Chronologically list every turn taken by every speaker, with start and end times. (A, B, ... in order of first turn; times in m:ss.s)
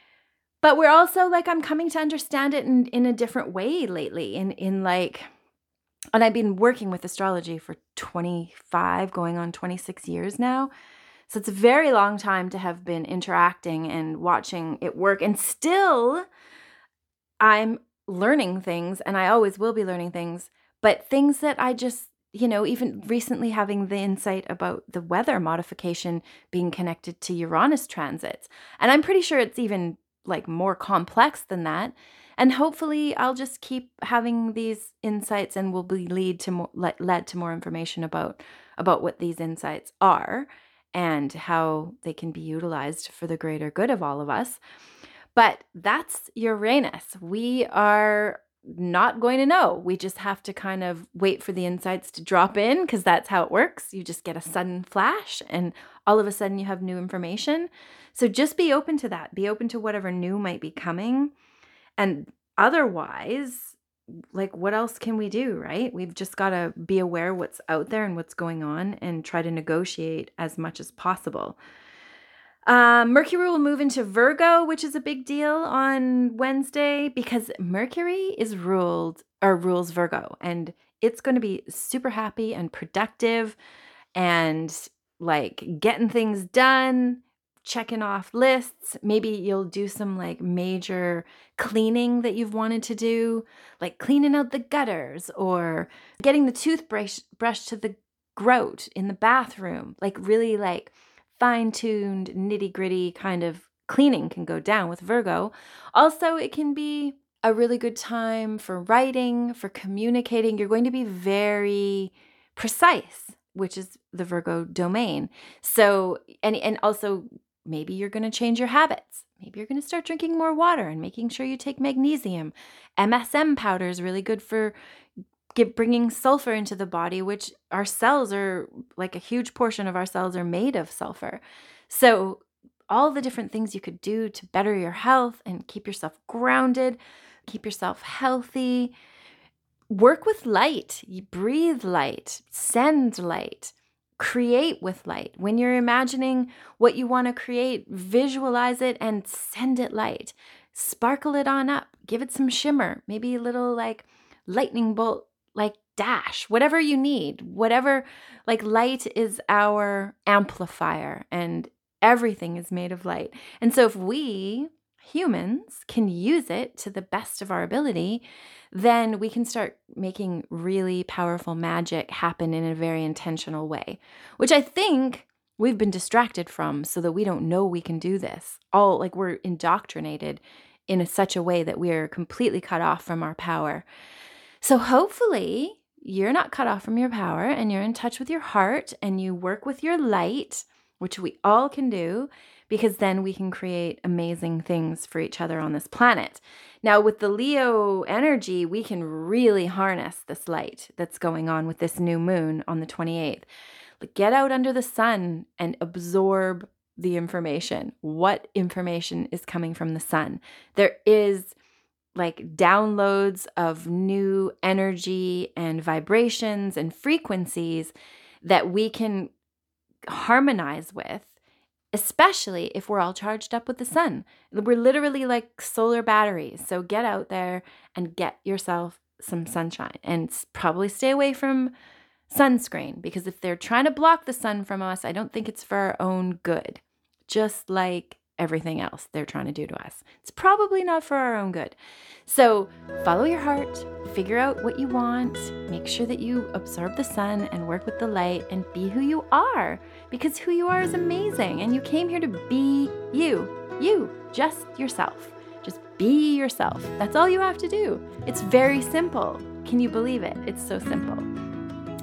0:00.6-0:05.3 A
0:06.1-0:10.7 A
0:11.3-0:16.2 A
0:17.4-0:44.6 A
0:45.4-1:01.3 A
1:02.0-1:03.8 A
1:04.3-1:11.6 A
1:12.7-1:23.6 A
1:24.2-2:04.8 A
2:05.5-2:18.9 A
2:19.9-3:03.8 A
3:04.6-3:23.5 A
3:24.0-3:31.6 A
3:32.2-3:39.3 A
3:40.1-3:41.3 A
3:41.9-3:51.7 A
3:52.3-4:21.3 A